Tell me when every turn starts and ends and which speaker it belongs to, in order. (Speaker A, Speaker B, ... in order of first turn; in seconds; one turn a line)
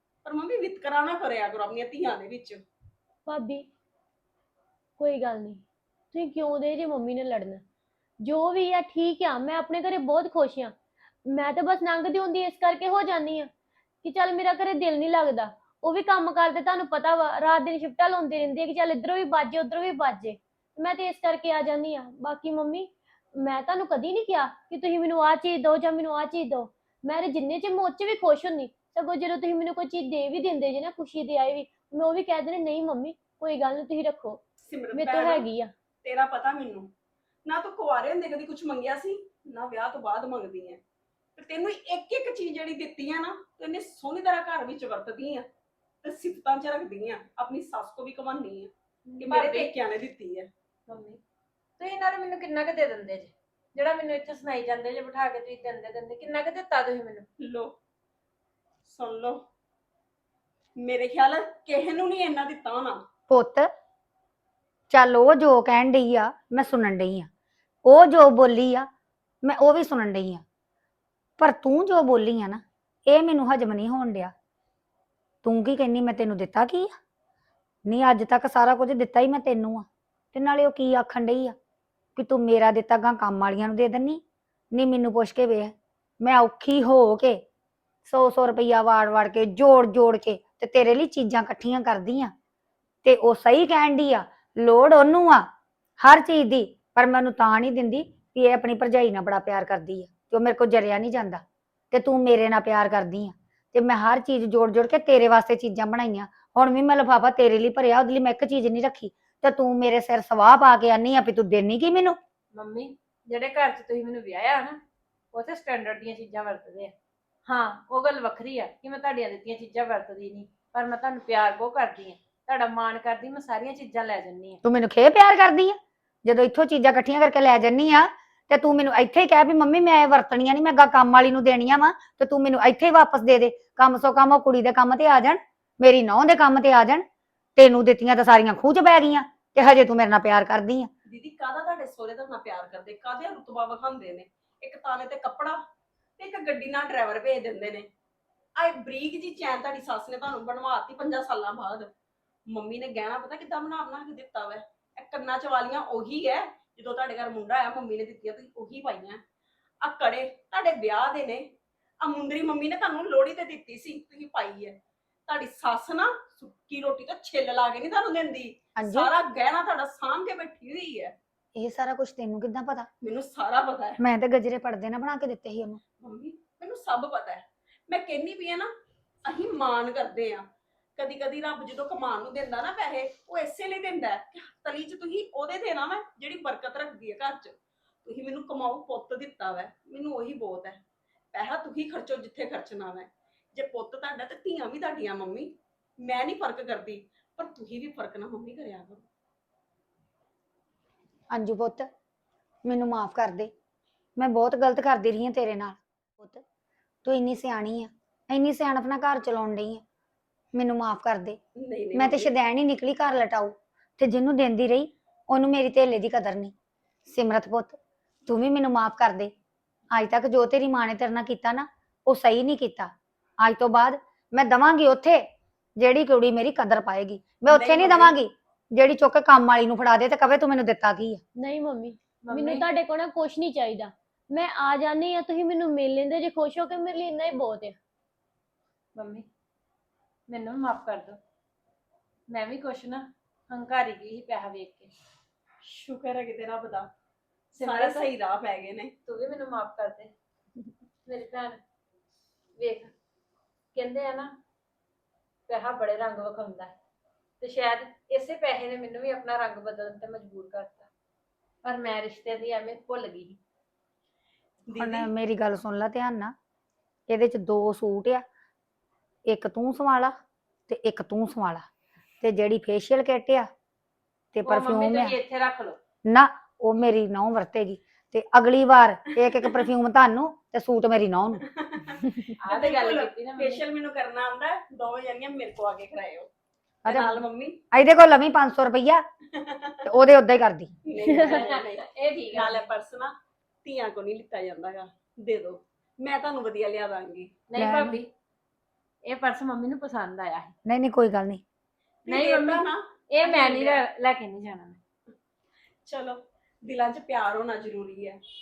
Speaker A: 0.2-2.6
Speaker B: 3.3-3.7
Speaker B: 5.0-7.6
Speaker B: 8.2-13.5
Speaker B: 14.0-34.4
Speaker A: 34.6-35.5
Speaker B: 35.0-35.7
Speaker A: 36.0-36.9
Speaker A: 37.5-40.8
Speaker A: 41.4-45.5
Speaker A: 46.0-50.5
Speaker C: 49.1-49.7
Speaker C: 50.9-51.2
Speaker C: 51.8-57.3
Speaker A: 57.4-57.7
Speaker A: 58.9-59.4
Speaker A: 60.8-63.0
Speaker D: 63.3-63.7
Speaker D: 64.9-67.3
Speaker D: 67.8-68.9
Speaker D: 69.4-70.4
Speaker D: 71.4-74.3
Speaker D: 75.4-76.9
Speaker D: 77.9-81.5
Speaker D: 82.2-84.2
Speaker D: 84.7-87.4
Speaker D: 88.0-92.3
Speaker D: 93.0-95.5
Speaker D: 96.0-112.2
Speaker C: 112.5-114.8
Speaker C: 115.3-116.9
Speaker C: 117.5-124.6
Speaker D: 124.6-137.1
Speaker D: 137.6-140.9
Speaker A: 141.1-145.6
Speaker A: 146.2-147.9
Speaker A: 148.6-151.9
Speaker A: 152.5-159.2
Speaker A: 159.8-161.5
Speaker A: 162.0-171.2
Speaker D: 168.8-169.1
Speaker D: 171.6-172.9
Speaker A: 173.0-174.0
Speaker D: 174.0-175.8
Speaker A: 176.0-178.7
Speaker A: 179.2-180.5
Speaker A: 181.0-190.8
Speaker A: 191.3-199.0
Speaker D: 201.3-201.9
Speaker D: 202.7-203.5
Speaker D: 204.2-206.4
Speaker D: 207.1-209.8
Speaker D: 210.5-211.4
Speaker A: 211.6-212.3
Speaker D: 211.9-216.5
Speaker D: 217.1-219.3
Speaker D: 219.9-222.9
Speaker D: 223.4-225.2
Speaker D: 225.8-231.2
Speaker A: 227.5-228.2
Speaker B: 231.4-237.8
Speaker C: 232.2-232.7
Speaker C: 239.0-239.3
Speaker C: 240.3-241.2
Speaker C: 242.3-244.9
Speaker A: 245.6-246.9
Speaker A: 247.6-248.9
Speaker C: 247.6-248.1
Speaker C: 249.1-250.1
Speaker C: 251.1-251.6
Speaker C: 252.6-252.9
Speaker C: 253.7-254.4
Speaker C: 255.5-256.8
Speaker C: 257.4-260.9
Speaker C: 261.6-263.4
Speaker A: 264.7-265.1
Speaker D: 264.8-266.4
Speaker D: 267.1-268.2
Speaker D: 269.3-270.1
Speaker D: 270.7-271.7
Speaker D: 272.2-273.5
Speaker D: 274.3-275.2
Speaker C: 274.4-275.8
Speaker D: 276.1-281.4
Speaker A: 281.5-286.3
Speaker C: 282.4-283.6
Speaker D: 286.8-289.1
Speaker A: 286.9-287.6
Speaker A: 289.3-289.9
Speaker D: 289.9-290.7
Speaker A: 290.9-297.4
Speaker C: 291.0-292.7
Speaker C: 297.5-298.1
Speaker D: 297.6-298.0
Speaker C: 299.1-300.5
Speaker D: 300.7-301.4
Speaker A: 302.1-303.8
Speaker C: 302.1-304.8
Speaker A: 305.9-308.2